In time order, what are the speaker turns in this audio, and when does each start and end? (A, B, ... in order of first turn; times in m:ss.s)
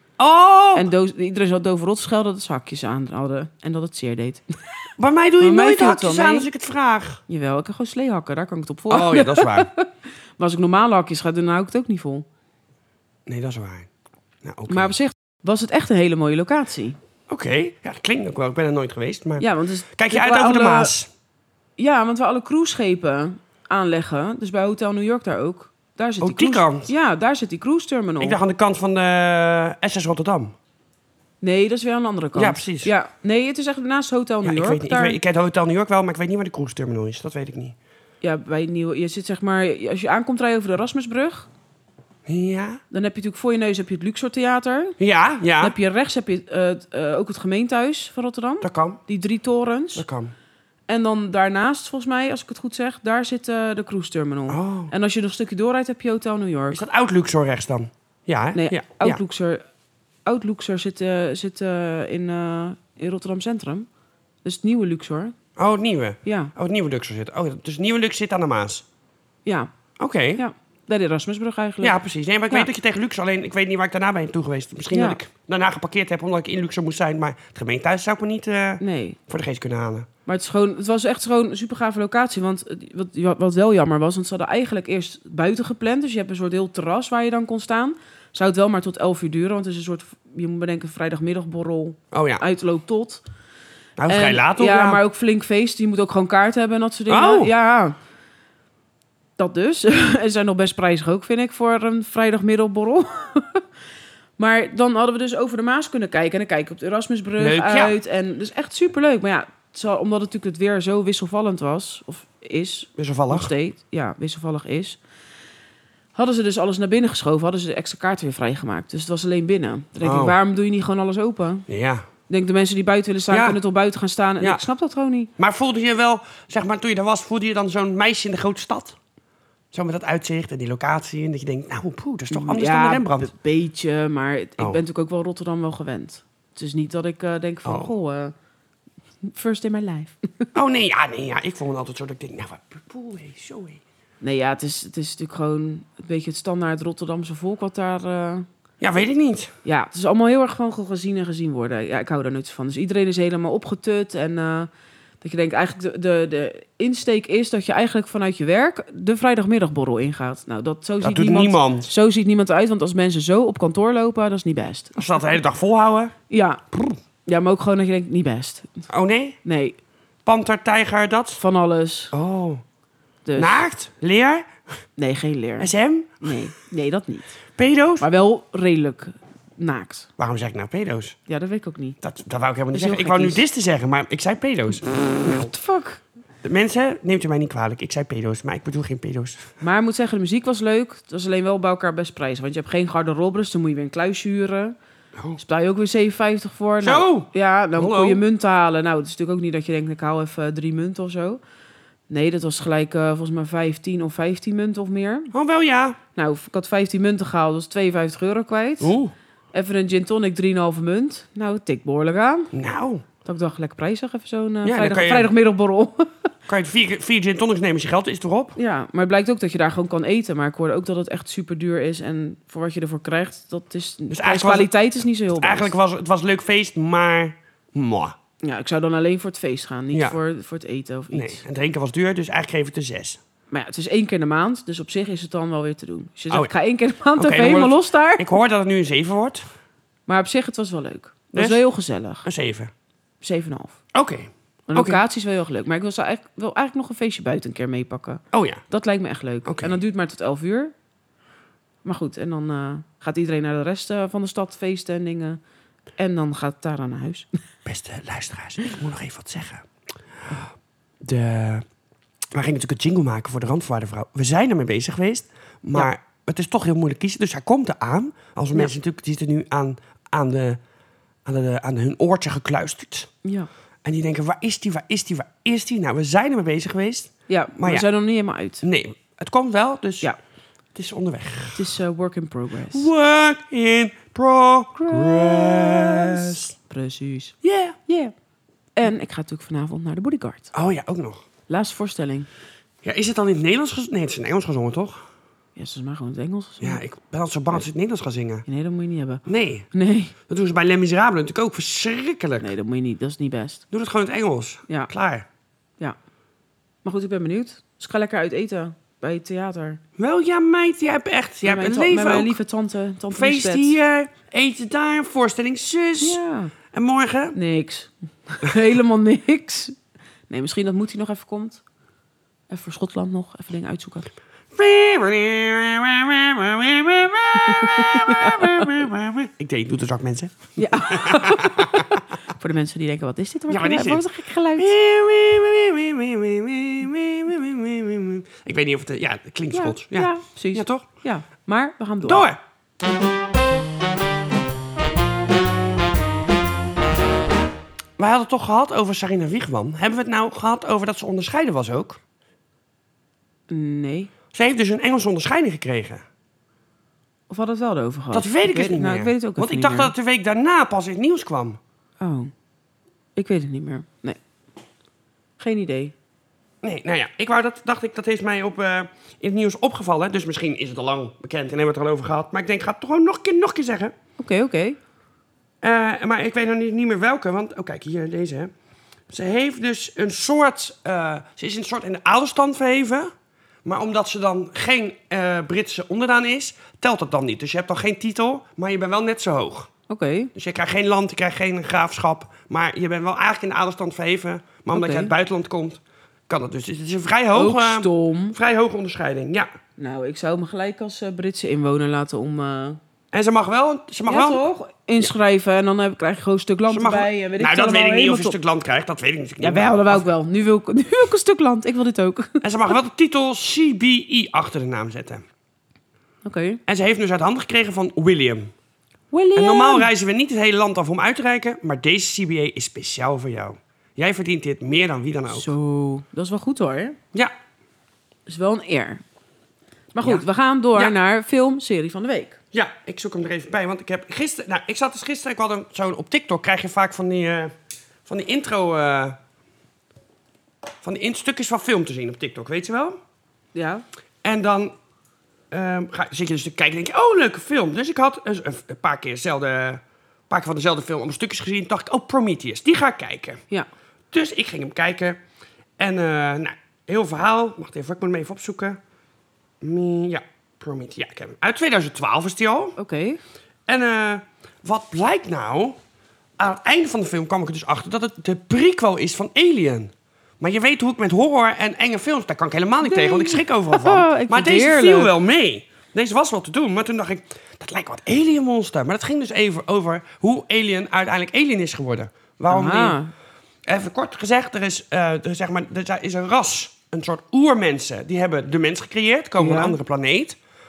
0:00.2-0:00.9 A
0:00.7-0:04.4 B
0:05.0-0:07.2 A
0:05.4-0:06.5 B
0:07.3-0:12.2 B
0:08.9-0:09.7 A
0:13.3-0:13.9 A
0:14.4-0:14.9 A
0:14.7-0:17.0 B
0:17.3-0:21.1 A
0:19.4-0:20.9 B
0:21.8-0:28.4 B
0:26.2-0:26.9 A
0:28.2-0:30.5 A
0:31.4-0:35.2 B
0:32.4-0:32.9 A
0:34.4-0:37.8 A
0:38.2-0:41.5 B
0:42.3-0:42.8 A
0:42.9-0:45.0 B
0:45.0-0:45.7 A
0:45.6-0:50.0 B
0:48.6-0:49.0 A
0:49.9-0:50.3 A
0:50.9-0:56.8 B
0:54.5-0:54.9 A
0:56.7-0:59.2 A
0:58.5-0:59.6 B
1:00.2-1:03.9 B
1:04.4-1:05.3 B
1:05.6-1:08.8 A
1:06.2-1:06.5 B
1:09.4-1:09.7 B
1:10.0-1:10.4 A
1:10.4-1:12.0 B
1:11.8-1:20.1 A
1:14.9-1:15.2 B
1:18.8-1:19.2 B
1:20.2-1:33.2 B
1:32.1-1:32.4 A
1:34.0-1:35.0 A
1:34.1-1:38.0 B
1:37.1-1:37.5 A
1:39.4-1:43.6 B
1:44.4-1:55.0 B
1:47.4-1:48.0 A
1:53.0-1:53.5 A
1:56.1-2:01.6 B
2:00.0-2:00.4 A
2:01.7-2:02.0 A
2:02.3-2:05.3 B
2:03.3-2:03.6 A
2:05.4-2:09.0 A
2:09.7-2:13.3 A
2:12.3-2:18.3 B
2:17.6-2:17.9 A
2:19.2-2:20.5 B
2:20.5-2:23.8 A
2:24.2-2:28.5 B
2:28.8-2:29.5 A
2:29.6-2:34.7 B
2:35.2-2:45.0 B
2:41.0-2:41.9 A
2:45.0-2:46.1 A
2:46.3-2:46.6 B
2:47.2-2:48.8 B
2:48.9-2:49.4 A
2:49.4-2:49.8 B
2:50.2-2:51.4 A
2:51.4-2:52.1 B
2:52.1-2:52.6 A
2:53.2-2:53.6 B
2:53.4-2:54.5 A
2:55.0-2:55.7 B
2:55.6-2:56.4 A
2:56.2-2:57.3 B
2:57.6-2:58.1 A
2:58.0-3:00.1 B
3:00.2-3:01.2 A
3:01.3-3:02.0 B
3:02.0-3:05.5 A
3:02.7-3:03.4 B
3:05.2-3:06.0 B
3:06.4-3:09.5 A
3:09.6-3:14.8 B
3:15.4-3:21.4 B
3:16.8-3:18.2 A
3:22.1-3:25.3 B
3:25.3-3:26.0 A
3:26.2-3:28.9 B
3:28.8-3:29.1 A
3:29.5-3:32.5 B
3:32.5-3:33.0 A
3:33.2-3:36.3 B
3:34.6-3:35.3 A
3:36.5-3:38.6 A
3:38.6-3:45.7 B
3:44.1-3:44.7 A
3:45.4-3:48.1 A
3:48.4-3:51.4 B
3:49.9-3:50.2 A
3:51.1-3:53.2 A
3:53.5-3:58.3 B
3:57.2-3:59.4 A
4:00.1-4:02.3 B
4:01.3-4:01.6 A
4:02.2-4:02.7 A
4:03.2-4:03.8 B
4:03.9-4:05.0 A
4:04.7-4:10.7 B
4:08.3-4:08.6 A
4:09.4-4:09.8 A
4:11.8-4:15.4 B
4:16.0-4:17.3 B
4:17.6-4:19.6 A
4:21.0-4:21.6 A
4:22.3-4:30.6 A
4:31.2-4:33.1 A
4:33.2-4:33.5 B
4:33.8-4:37.9 A
4:37.3-4:38.6 B
4:38.6-4:40.1 A
4:40.7-4:41.6 A
4:41.5-4:42.9 B
4:42.7-4:46.5 A
4:44.8-4:47.4 B
4:47.4-4:47.8 A
4:47.9-4:48.1 B
4:48.8-4:50.5 B
4:50.5-4:51.2 A
4:51.5-4:52.3 B
4:52.8-4:55.0 A
4:55.6-4:56.8 B
4:56.6-4:58.4 A
4:58.4-5:00.1 B
4:59.2-4:59.7 A
5:00.3-5:02.5 A
5:02.4-5:03.6 B
5:03.7-5:05.2 A
5:06.8-5:09.8 B
5:10.0-5:12.3 A
5:11.4-5:13.8 B
5:13.1-5:16.2 A
5:16.0-5:16.5 B
5:16.7-5:17.4 A
5:17.3-5:19.8 B
5:20.3-5:21.6 B
5:22.5-5:24.1 B
5:24.5-5:32.0 A
5:27.4-5:28.7 B
5:30.6-5:34.7 B
5:33.5-5:40.8 A
5:39.5-5:42.3 B
5:42.0-5:42.4 A
5:48.0-5:52.0 A
5:53.5-5:54.1 B
5:54.3-5:56.0 A
5:57.3-5:59.9 B
5:58.1-6:01.6 A
6:02.0-6:02.3 B
6:03.2-6:04.2 B
6:05.4-6:05.9 B
6:06.6-6:13.9 A
6:14.2-6:14.8 B
6:15.6-6:18.5 A
6:19.1-6:23.1 A
6:23.6-6:29.7 A
6:29.9-6:30.3 B
6:30.3-6:39.5 A
6:34.7-6:35.1 B
6:37.3-6:38.4 B
6:39.8-6:42.8 B
6:43.1-6:44.4 A
6:44.1-6:48.4 B
6:46.7-6:50.0 A
6:49.4-6:52.7 B
6:52.4-6:55.2 A
6:56.2-6:56.6 B
6:56.7-6:58.5 A
6:59.1-6:59.9 B
6:59.3-7:05.5 A
7:05.3-7:07.0 B
7:08.2-7:09.0 B
7:09.9-7:12.4 B
7:12.5-7:17.5 A
7:18.0-7:19.2 A
7:20.8-7:23.0 A
7:23.5-7:23.8 B
7:24.2-7:24.7 A
7:25.5-7:33.4 A
7:34.1-7:35.2 A
7:35.8-7:38.8 A
7:39.6-7:42.8 A
7:42.8-7:43.2 B
7:43.7-7:45.8 A
7:46.4-8:03.0 A
7:52.8-7:55.1 B
8:02.5-8:03.1 B
8:03.6-8:10.4 A
8:09.4-8:09.8 B